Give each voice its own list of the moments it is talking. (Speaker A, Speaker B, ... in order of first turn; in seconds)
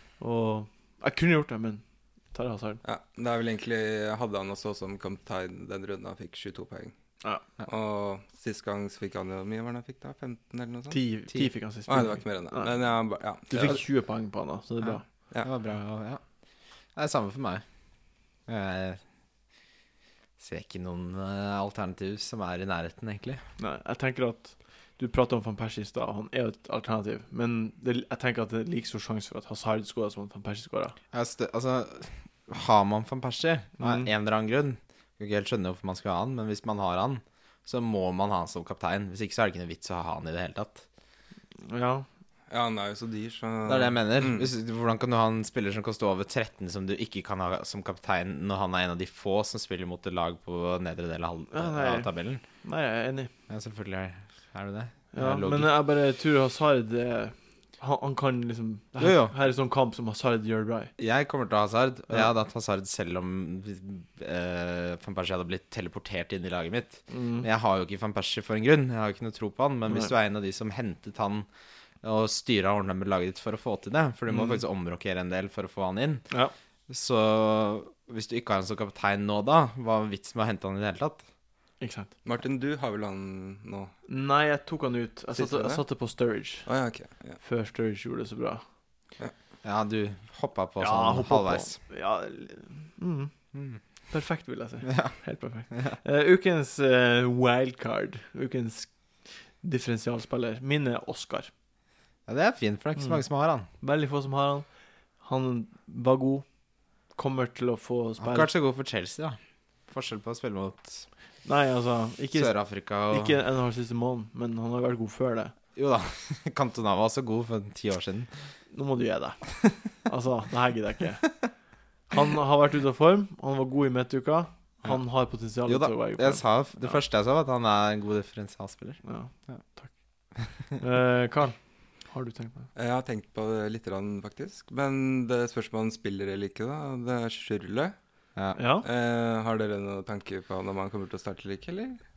Speaker A: 0.2-2.8, 10.9-12.8, 13.5-15.0, 23.6-30.9, 33.8-34.1, 41.6-42.0, 51.5-52.1, 52.6-53.3, 55.1-60.9, 67.1-67.5, 74.3-74.6, 81.8-82.1, 84.1-86.7, 87.4-88.6, 90.8-93.3, 94.1-101.5, 103.8-104.7, 105.2-106.4, 107.1-108.5, 111.4-112.5, 113.1-115.5, 118.7-121.4, 122.1-127.0, 129.0-129.9, 130.8-132.7, 138.6-138.8
Speaker B: 2.8-6.9, 7.6-11.0, 11.9-13.8, 42.5-44.5, 82.2-83.9, 85.3-85.8, 86.7-87.4, 132.8-137.9, 138.8-142.0
Speaker C: 15.4-16.2, 16.9-17.6, 18.5-19.0, 20.4-23.4, 31.1-40.8, 43.6-52.4, 53.5-55.7, 59.0-59.3, 61.0-71.5, 72.0-76.2, 76.9-81.2, 89.6-91.8, 93.5-93.8, 94.8-95.2, 102.3-103.7, 108.2-109.4, 109.9-111.1, 112.3-113.3, 115.7-118.3, 125.5-129.6